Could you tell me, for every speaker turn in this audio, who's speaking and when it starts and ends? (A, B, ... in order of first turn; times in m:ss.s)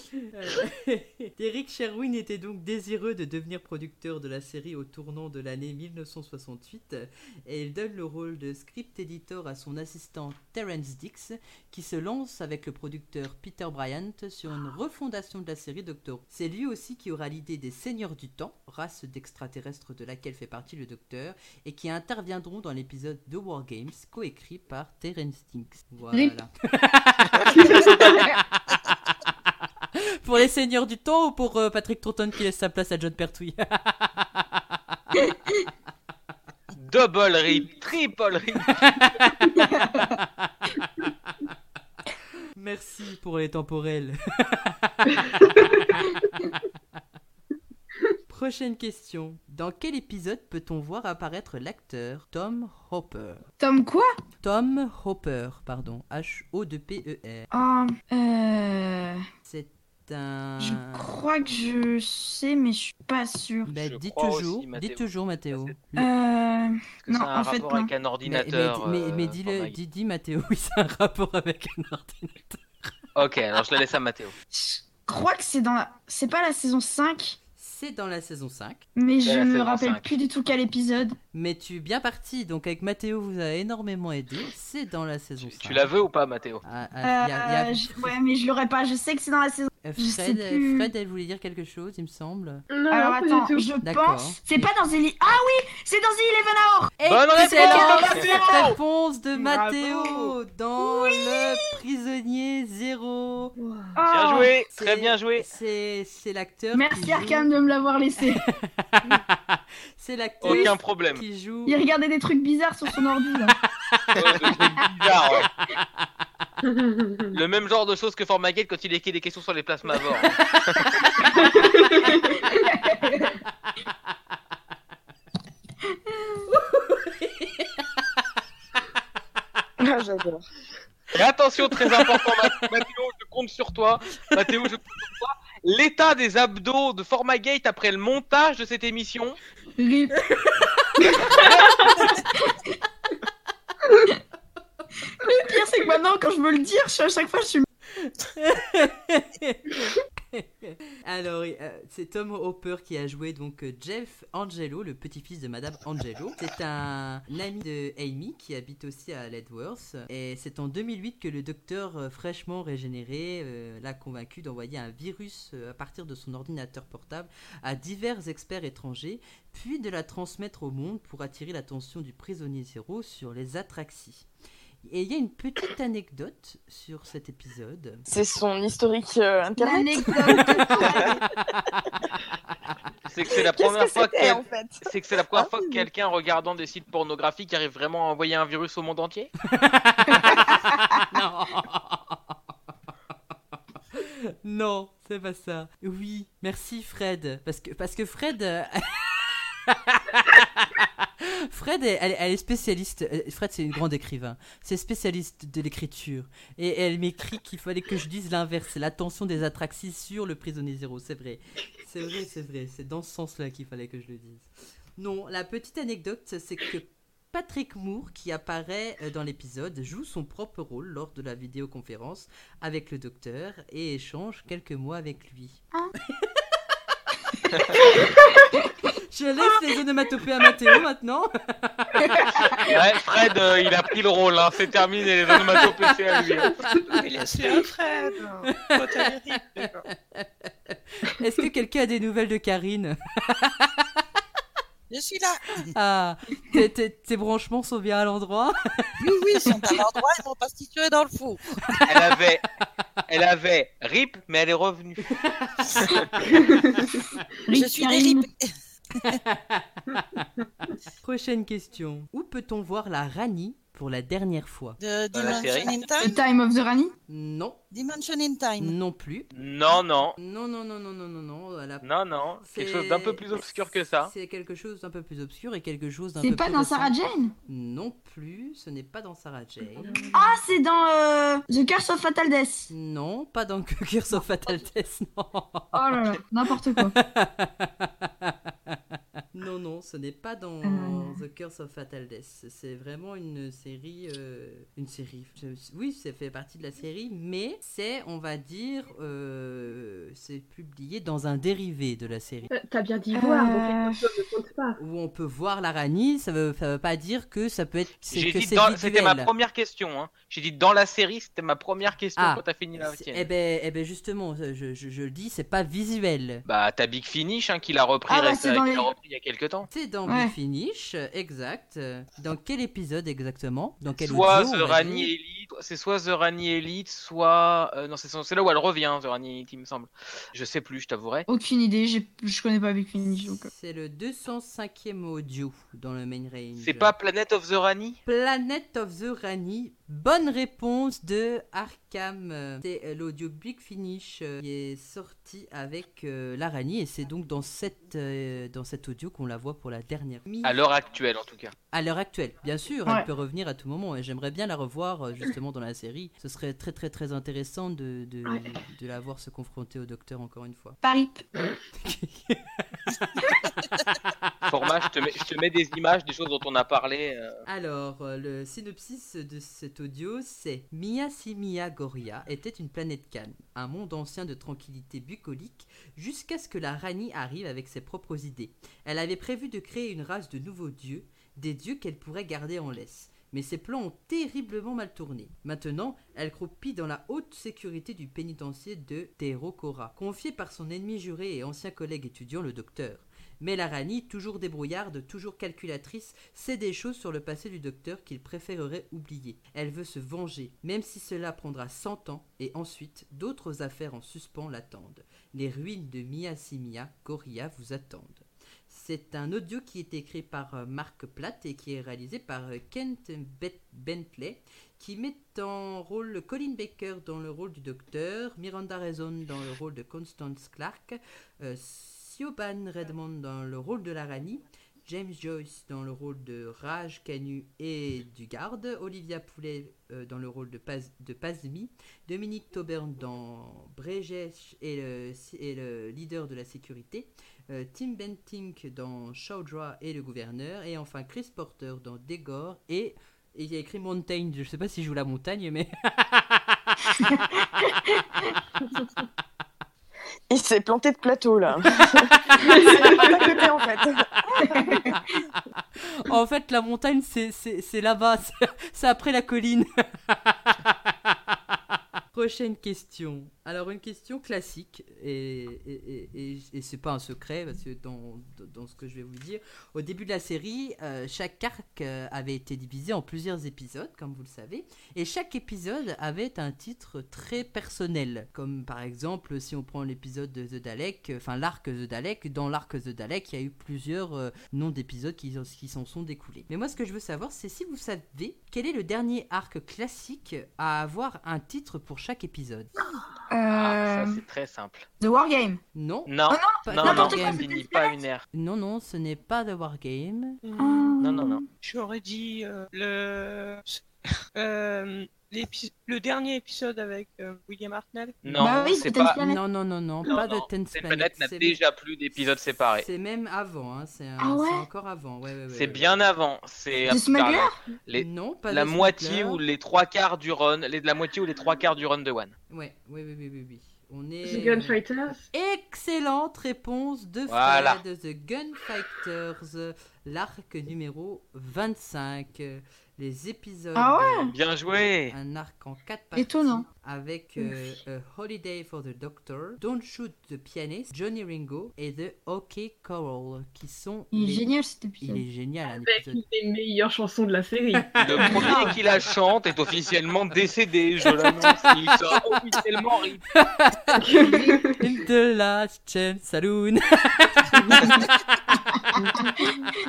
0:00.2-0:29.3 A
0:27.5-0:28.2 B
0:27.6-0:28.2 C
0:30.0-0:35.0 A
0:36.8-0:38.8 D
0:38.8-0:40.5 A
0:39.6-0:40.1 C
0:41.0-0:41.5 A
0:42.6-0:45.7 A
0:48.3-0:53.4 A
0:53.6-0:54.1 C
0:54.4-0:57.5 A
0:57.5-0:59.2 C
0:59.4-1:01.1 A
1:00.6-1:03.7 C
1:03.7-1:06.1 A
1:03.7-1:05.8 D
1:06.0-1:07.9 C
1:07.0-1:09.8 D
1:08.2-1:12.9 A
1:13.2-1:14.3 D
1:14.5-1:17.4 C
1:17.6-1:18.8 A
1:19.0-1:21.2 C
1:19.2-1:20.0 D
1:21.3-1:25.9 A
1:25.4-1:26.6 D
1:26.6-1:28.1 A
1:27.0-1:30.9 C
1:29.8-1:32.6 A
1:32.7-1:33.7 B
1:32.9-1:38.7 C
1:33.8-1:34.4 A
1:37.0-1:43.5 A
1:37.1-1:38.8 D
1:39.4-1:39.9 E
1:43.6-1:44.0 B
1:44.0-1:44.5 C
1:44.1-1:45.5 D
1:44.7-1:47.5 A
1:46.7-1:48.4 C
1:48.2-1:51.8 A
1:50.4-1:51.2 D
1:50.4-1:50.7 C
1:51.7-1:53.6 C
1:54.2-1:54.5 A
1:54.2-1:55.5 D
1:55.8-1:56.4 A
1:56.6-1:57.4 B
1:57.3-2:00.8 D
2:01.2-2:03.4 C
2:01.6-2:02.1 B
2:06.5-2:08.2 A
2:09.8-2:10.4 F
2:11.1-2:19.4 D
2:11.8-2:12.5 A
2:19.8-2:20.2 C
2:21.4-2:21.8 D
2:22.0-2:22.7 C
2:25.2-2:27.7 C
2:28.0-2:54.3 A
2:54.8-2:58.1 A
2:58.1-3:00.9 F
2:59.6-3:01.2 C
3:00.4-3:01.7 A
3:03.1-3:09.3 D
3:03.5-3:04.8 F
3:05.3-3:05.8 F
3:09.5-3:12.4 A
3:10.1-3:10.5 C
3:13.9-3:45.6 A
3:46.2-3:46.4 A
3:49.1-3:52.2 A
3:52.0-3:52.6 C
3:52.7-3:56.6 D
3:55.3-3:56.4 A
3:56.9-3:59.9 E
3:58.5-4:04.0 A
4:04.9-4:05.7 G
4:05.7-4:08.9 A
4:09.0-4:11.4 G
4:11.7-4:12.0 A
4:11.9-4:12.5 D
4:13.1-4:15.1 D
4:15.2-4:15.7 A
4:16.4-4:16.8 B
4:17.5-4:18.2 C
4:17.5-4:19.2 G
4:19.0-4:20.2 A
4:21.0-4:24.8 A
4:24.8-4:26.2 G
4:25.1-4:25.7 D
4:26.0-4:26.9 C
4:27.1-4:27.6 A
4:27.7-4:28.8 G
4:28.6-4:29.3 A
4:29.3-4:30.2 D
4:30.2-4:31.9 A
4:31.8-4:34.1 D
4:32.4-4:36.9 A
4:36.2-4:37.3 C
4:37.5-4:40.0 A
4:39.8-4:40.2 B
4:40.1-4:42.7 C
4:42.7-4:48.8 A
4:45.7-4:47.0 C
4:49.3-5:02.5 A
4:50.6-4:51.2 C
5:02.5-5:04.8 B
5:03.1-5:04.1 C
5:04.8-5:09.3 A
5:08.1-5:13.3 D
5:12.2-5:16.4 A
5:16.5-5:19.7 D
5:18.1-5:18.9 C
5:19.7-5:25.1 A
5:20.1-5:20.3 C
5:24.0-5:31.3 D
5:31.3-5:33.5 C
5:33.4-5:36.9 A
5:36.6-5:38.0 D
5:38.1-5:50.6 A
5:50.4-5:51.5 D
5:51.7-6:00.8 A
6:00.8-6:01.2 C
6:01.8-6:03.2 A
6:04.4-6:07.4 D
6:07.5-7:26.6 A
7:27.0-7:28.3 C
7:30.3-7:34.8 F
7:32.4-7:33.2 B
7:34.4-7:35.0 C
7:36.0-7:41.4 A
7:42.1-8:12.7 A
8:13.3-8:14.2 C
8:13.5-8:14.9 D
8:15.0-8:15.6 C
8:15.7-8:17.5 A
8:16.1-8:18.2 D
8:16.3-8:17.9 C
8:18.3-8:20.4 A
8:20.4-8:20.9 E
8:20.6-8:21.4 C
8:21.0-8:21.4 D
8:21.6-8:23.8 E
8:24.4-8:28.2 E
8:28.2-8:29.2 D
8:28.4-8:29.4 C
8:29.2-8:31.6 A
8:30.1-8:32.9 D
8:32.8-8:36.1 A
8:34.2-8:34.7 C
8:35.5-8:42.3 D
8:36.9-8:37.6 C
8:37.9-8:39.4 A
8:42.5-8:44.8 A
8:44.2-8:45.2 B
8:45.3-8:54.4 A
8:47.3-8:47.8 D
8:53.8-8:54.3 C
8:54.3-8:55.1 D
8:55.1-9:04.5 A
8:56.2-8:56.6 C
9:04.1-9:05.2 C
9:05.0-9:06.2 A
9:05.7-9:08.6 B
9:08.0-9:08.8 A
9:08.0-9:13.2 D
9:11.1-9:11.8 A
9:13.3-9:18.2 A
9:14.0-9:14.8 B
9:14.2-9:14.6 C
9:19.2-9:19.4 C